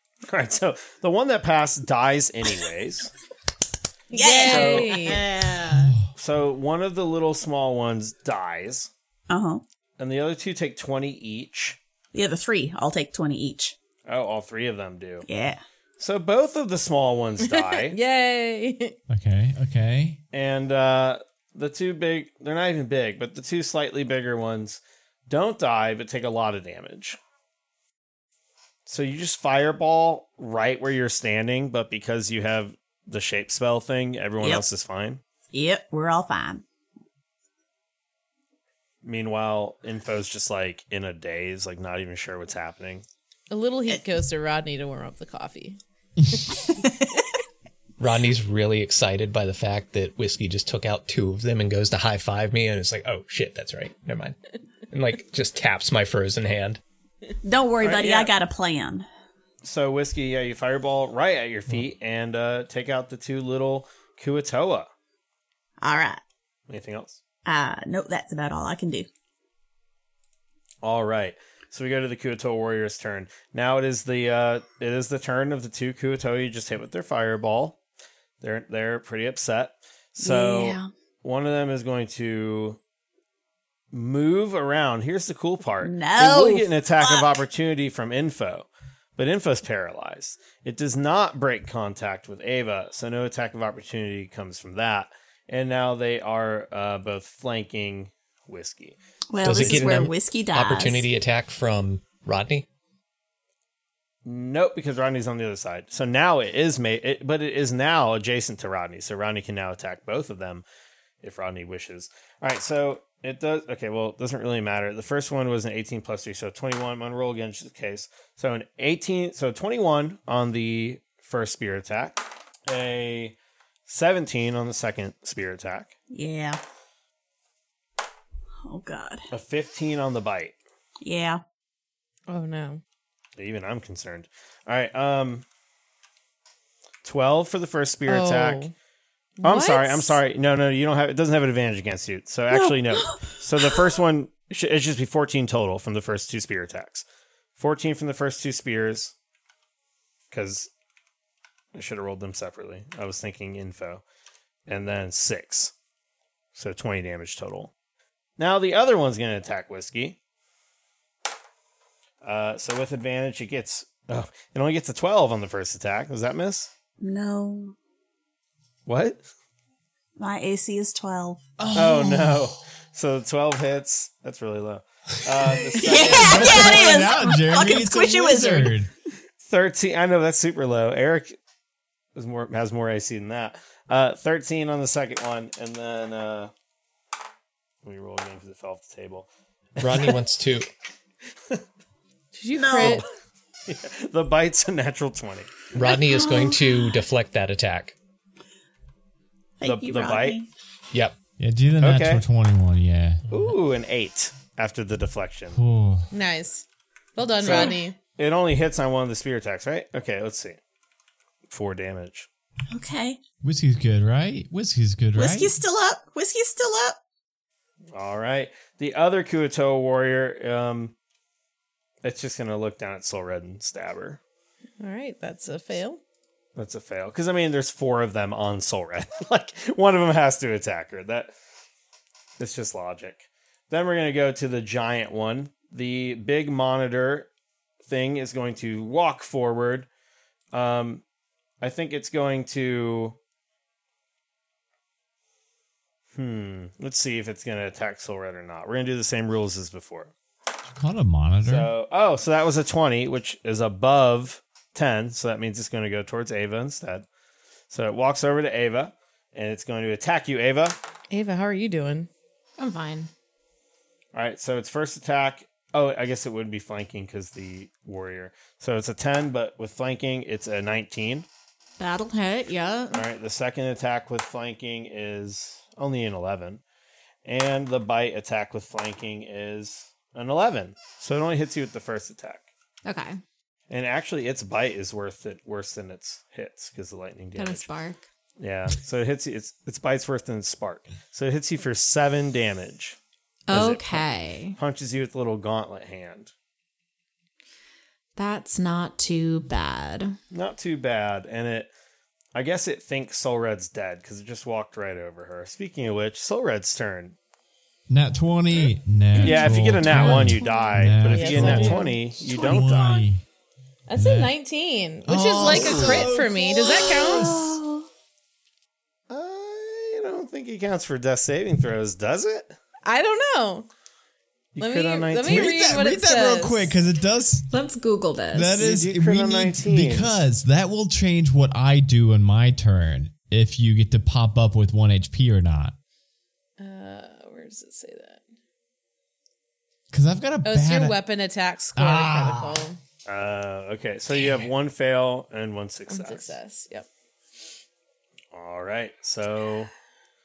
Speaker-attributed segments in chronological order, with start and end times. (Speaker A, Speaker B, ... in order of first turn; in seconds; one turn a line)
Speaker A: 0.3-3.1
Speaker B: 4.1-5.2
Speaker C: 4.1-5.9
Speaker A: 4.5-4.9
Speaker D: 5.7-6.0
Speaker A: 6.1-8.9
Speaker C: 9.3-9.6
Speaker A: 10.0-11.8
Speaker C: 12.1-13.7
Speaker A: 14.1-15.2
Speaker C: 15.3-15.6
Speaker A: 16.0-18.0
Speaker B: 17.4-19.0
Speaker D: 19.1-20.2
Speaker A: 20.3-27.2
Speaker A: 28.9-35.2
Speaker C: 35.5-36.6
Speaker A: 39.0-43.0
Speaker B: 43.5-45.8
Speaker E: 48.0-54.4
Speaker E: 54.9-56.8
Speaker C: 57.4-59.0
Speaker A: 57.8-58.3
Speaker A: 59.6-64.9
Speaker C: 65.8-66.2
Speaker A: 66.7-67.2
Speaker C: 67.5-69.1
Speaker A: 70.8-77.8
Speaker A: 78.4-82.8
Speaker C: 80.2-80.9
Speaker A: 83.9-100.1
Speaker C: 85.8-87.4
Speaker C: 99.3-101.1
Speaker E: 99.4-102.7
Speaker A: 104.2-110.6
Speaker A: 111.2-123.3
Speaker A: 123.9-125.9
Speaker C: 126.1-126.6
Speaker C: 128.6-129.2
Speaker A: 129.3-130.6
Speaker C: 131.0-131.4
Speaker B: 132.3-132.8
Speaker A: 133.4-135.4
Speaker A: 137.0-138.7
Speaker B: 138.1-138.7
Speaker B: 139.4-140.2
Speaker A: 139.4-147.0
Speaker C: 142.5-143.2
Speaker A: 147.6-149.1
Speaker A: 150.3-150.7
Speaker A: 151.7-154.0
Speaker A: 154.7-155.7
Speaker A: 156.6-157.7
Speaker A: 158.4-160.2
Speaker A: 162.2-166.7
Speaker C: 167.0-167.7
Speaker A: 168.9-169.2
Speaker C: 170.2-171.4
Speaker D: 171.6-172.5
Speaker A: 171.7-176.9
Speaker C: 175.7-178.8
Speaker D: 175.9-178.9
Speaker A: 179.4-181.3
Speaker A: 182.2-186.5
Speaker A: 187.8-189.3
Speaker A: 189.8-190.1
Speaker E: 189.8-190.7
Speaker B: 192.3-193.1
Speaker C: 192.5-193.0
Speaker A: 193.7-195.5
Speaker E: 195.7-197.9
Speaker C: 195.8-196.7
Speaker C: 199.6-200.5
Speaker A: 199.6-200.4
Speaker D: 201.4-203.2
Speaker A: 201.8-202.2
Speaker A: 203.3-205.6
Speaker D: 205.5-206.1
Speaker B: 206.1-207.9
Speaker A: 207.4-210.6
Speaker C: 207.5-207.7
Speaker A: 211.5-212.3
Speaker C: 212.7-213.2
Speaker D: 213.4-215.5
Speaker C: 215.1-217.0
Speaker A: 217.9-220.9
Speaker A: 222.0-224.2
Speaker B: 224.8-226.0
Speaker A: 226.6-231.3
Speaker A: 232.4-237.3
Speaker A: 237.8-239.9
Speaker A: 240.5-241.0
Speaker A: 241.6-243.2
Speaker A: 246.1-250.1
Speaker D: 250.7-251.7
Speaker A: 251.4-257.1
Speaker A: 257.7-260.8
Speaker B: 261.1-262.1
Speaker F: 262.6-263.1
Speaker A: 264.1-271.3
Speaker F: 271.8-273.0
Speaker A: 272.9-276.6
Speaker A: 277.2-282.4
Speaker F: 282.8-283.2
Speaker A: 283.7-287.7
Speaker F: 287.3-288.0
Speaker A: 288.4-293.0
Speaker F: 293.5-294.6
Speaker A: 293.5-296.3
Speaker F: 298.1-300.1
Speaker A: 300.3-301.7
Speaker A: 302.3-307.1
Speaker D: 307.9-313.2
Speaker A: 309.2-313.0
Speaker F: 310.0-310.6
Speaker B: 310.9-312.8
Speaker B: 313.9-317.4
Speaker D: 313.9-314.4
Speaker D: 315.0-317.4
Speaker A: 315.4-316.1
Speaker C: 316.7-317.8
Speaker A: 319.1-322.6
Speaker B: 322.8-323.7
Speaker A: 324.5-325.6
Speaker B: 324.6-326.7
Speaker D: 325.2-327.5
Speaker F: 327.5-328.7
Speaker D: 328.3-335.8
Speaker A: 328.6-330.2
Speaker B: 336.6-338.3
Speaker D: 339.9-341.0
Speaker B: 340.4-342.8
Speaker D: 341.7-342.6
Speaker A: 343.1-346.3
Speaker B: 345.9-346.9
Speaker A: 348.3-349.7